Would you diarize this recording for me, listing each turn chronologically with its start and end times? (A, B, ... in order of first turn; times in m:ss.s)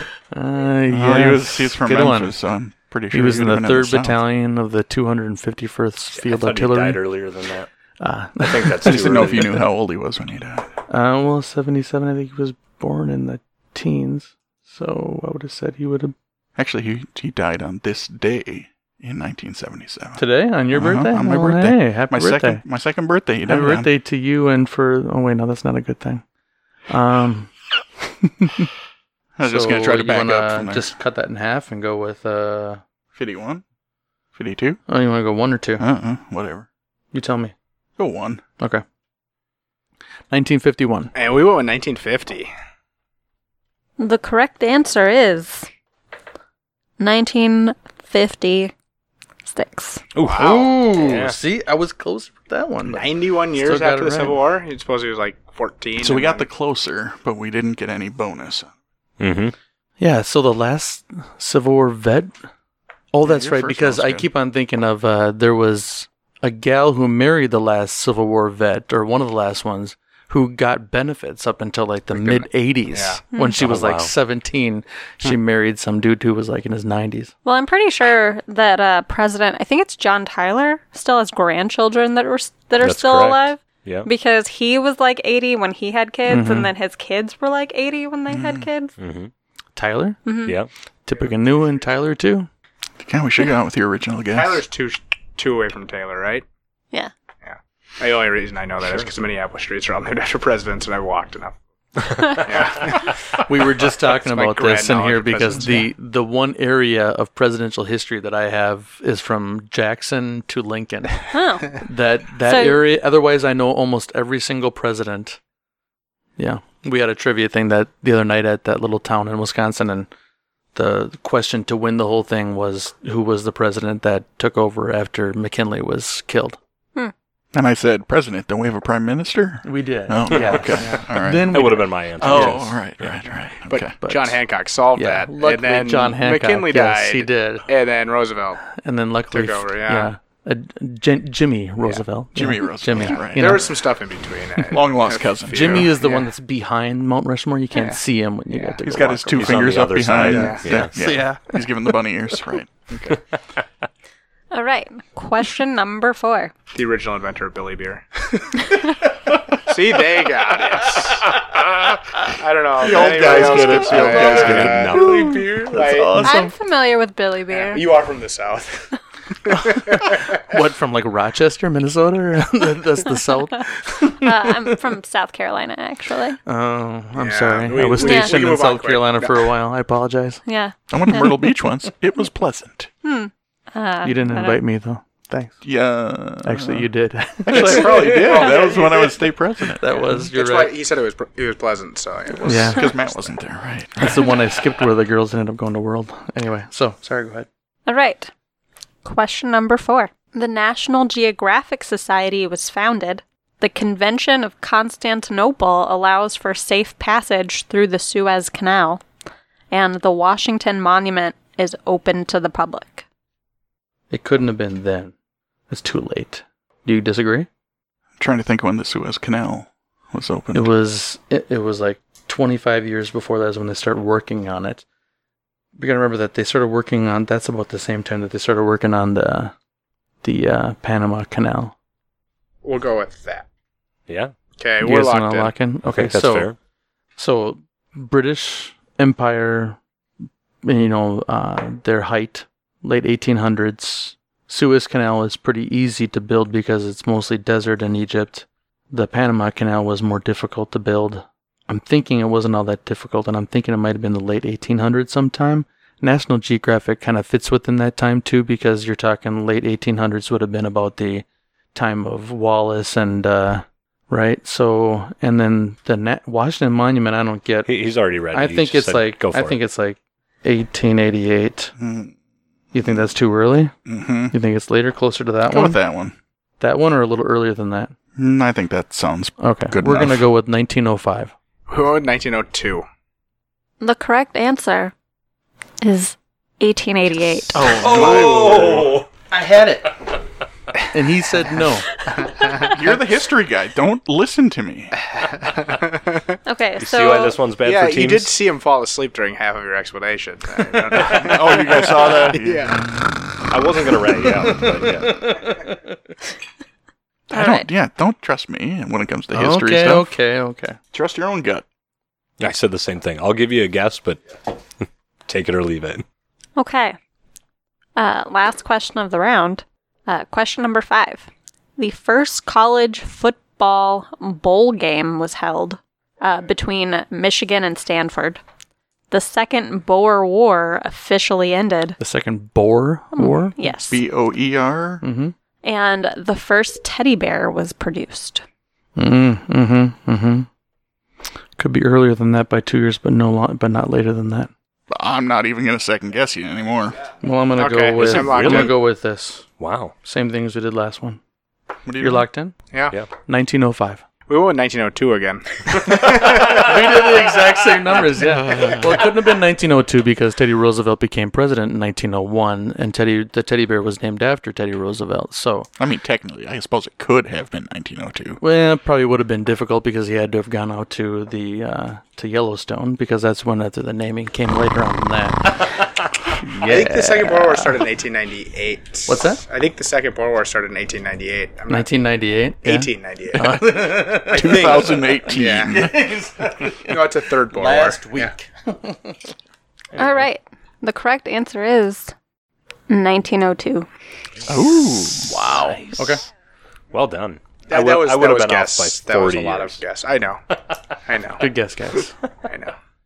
0:00.3-0:02.4 A
0:00.9-0:04.2 B
0:03.1-0:07.0 A
0:06.2-0:07.7 C
0:08.0-0:09.6 A
0:08.4-0:09.6 C
0:08.8-0:10.7 B
0:10.9-0:16.2 A
0:16.6-0:23.9 B
0:20.2-0:22.6 A
0:23.5-0:26.2 A
0:26.9-0:27.5 A
0:28.2-0:28.7 A
0:29.4-0:30.9 B
0:29.4-0:32.8 A
0:33.1-0:33.6 B
0:34.4-0:34.8 B
0:34.9-0:35.9 A
0:35.8-0:36.7 B
0:37.1-0:37.5 A
0:38.0-0:38.4 B
0:38.6-0:38.8 A
0:40.3-0:41.1 A
0:41.1-0:42.5 D
0:44.0-0:45.7 E
0:47.0-0:48.7 E
0:49.5-0:50.0 E
0:50.2-0:51.4 C
0:50.2-0:50.8 D
0:50.3-0:54.4 A
0:52.9-0:56.5 D
0:56.0-0:58.7 B
0:59.2-0:59.6 C
1:00.0-1:02.3 A
1:03.1-1:17.3 A
1:03.2-1:04.3 B
1:12.1-1:13.2 D
1:13.3-1:13.6 E
1:13.6-1:14.1 C
1:17.4-1:28.9 E
1:22.8-1:24.1 C
1:26.3-1:26.7 A
1:28.3-1:28.7 B
1:29.0-1:29.3 C
1:29.8-1:30.2 A
1:30.2-1:30.6 E
1:30.4-1:30.7 C
1:31.1-1:32.5 A
1:33.0-1:34.6 B
1:34.3-1:36.4 D
1:37.4-1:41.6 D
1:38.8-1:39.1 C
1:42.3-1:43.4 D
1:43.5-1:55.4 A
1:44.2-1:45.9 D
1:51.3-1:51.8 E
1:52.5-1:52.8 E
1:56.4-2:00.1 A
2:00.8-2:06.6 A
2:07.5-2:11.6 B
2:09.6-2:12.6 A
2:10.4-2:10.8 C
2:11.5-2:13.1 C
2:12.2-2:14.0 B
2:13.7-2:18.6 D
2:14.0-2:14.4 A
2:14.9-2:17.7 A
2:18.8-2:23.7 A
2:19.3-2:20.1 D
2:22.4-2:23.9 B
2:23.1-2:26.3 D
2:24.7-2:25.9 B
2:25.5-2:29.7 A
2:27.8-2:28.0 D
2:28.5-2:28.8 D
2:28.8-2:33.2 B
2:29.3-2:31.0 C
2:30.2-2:31.6 A
2:30.3-2:30.6 D
2:34.5-2:36.5 E
2:36.7-2:38.8 D
2:39.6-2:41.4 D
2:42.2-2:46.3 D
2:42.8-2:45.3 B
2:42.9-2:45.4 C
2:45.6-2:46.5 A
2:46.2-2:47.8 E
2:47.5-2:48.9 D
2:49.4-2:50.6 D
2:49.5-2:50.0 A
2:50.5-2:54.8 A
2:54.1-2:56.4 E
2:56.5-3:00.4 A
2:57.2-2:59.5 D
2:58.0-2:58.4 E
3:00.5-3:01.4 E
3:00.9-3:02.9 B
3:03.0-3:04.6 E
3:04.0-3:05.6 A
3:05.6-3:06.9 B
3:06.4-3:08.3 A
3:07.5-3:09.9 B
3:07.5-3:09.2 D
3:09.8-3:10.7 A
3:10.0-3:12.8 D
3:12.3-3:14.3 B
3:12.4-3:12.9 A
3:14.0-3:17.5 A
3:17.9-3:18.3 E
3:19.0-3:29.0 E
3:29.7-3:33.0 E
3:34.1-3:35.1 A
3:35.7-3:37.5 A
3:38.2-3:40.7 B
3:40.5-3:44.8 A
3:45.8-3:49.5 A
3:50.2-3:51.7 A
3:52.6-3:53.5 D
3:54.1-3:54.3 C
3:54.6-3:55.6 D
3:54.8-3:56.5 A
3:55.9-3:56.6 C
3:57.2-3:59.8 A
4:00.6-4:27.7 A
4:27.7-4:29.6 C
4:28.3-4:31.7 A
4:31.8-4:32.1 B
4:32.7-4:33.7 A
4:33.9-4:34.4 B
4:34.3-4:35.8 A
4:35.5-4:36.2 B
4:36.6-4:37.9 A
4:38.2-4:40.3 B
4:39.4-4:41.3 A
4:41.7-4:42.8 D
4:43.8-4:44.9 E
4:45.8-4:47.7 E
4:47.5-4:48.9 B
4:47.7-4:49.1 C
4:47.8-4:48.9 D
4:49.3-4:49.9 A
4:50.9-4:51.9 A
4:52.3-4:52.7 D
4:52.6-4:55.0 B
4:55.1-4:56.4 D
4:56.5-4:57.4 E
4:56.8-4:58.3 C
4:57.6-5:02.9 D
5:01.0-5:03.0 B
5:03.5-5:05.4 C
5:04.4-5:05.8 A
5:07.3-5:10.1 B
5:07.3-5:07.7 E
5:09.3-5:10.8 A
5:10.9-5:11.6 B
5:12.4-5:14.2 C
5:14.8-5:16.0 C
5:16.6-5:17.0 E
5:18.0-5:28.4 E
5:29.1-5:32.0 E
5:32.0-5:33.6 A
5:33.2-5:34.0 E
5:33.9-5:35.0 B
5:35.0-5:35.3 A
5:35.6-5:38.4 E
5:39.0-5:40.5 A
5:41.6-5:44.5 A
5:44.9-5:47.0 B
5:47.2-5:49.5 A
5:47.6-5:48.8 D
5:48.0-5:48.8 C
5:49.6-5:50.0 C
5:50.0-5:51.2 A
5:51.9-5:52.3 B
5:52.0-5:52.5 A
5:52.7-5:53.0 D
5:53.3-5:54.0 A
5:54.3-5:57.1 D
5:55.9-6:05.7 A
6:05.8-6:08.4 B
6:08.4-6:15.8 A
6:16.4-6:17.9 A
6:16.6-6:21.9 D
6:19.1-6:19.4 A
6:21.7-6:24.9 A
6:22.6-6:23.6 D
6:23.3-6:26.2 B
6:24.3-6:25.8 D
6:25.6-6:29.2 A
6:26.8-6:28.3 D
6:30.0-6:30.3 C
6:30.0-6:32.1 E
6:32.9-6:33.9 E
6:34.5-6:35.4 B
6:35.2-6:36.2 A
6:35.5-6:36.2 C
6:36.9-6:39.8 C
6:37.7-6:40.4 D
6:41.0-6:41.5 D
6:41.4-6:42.2 A
6:42.5-6:42.8 D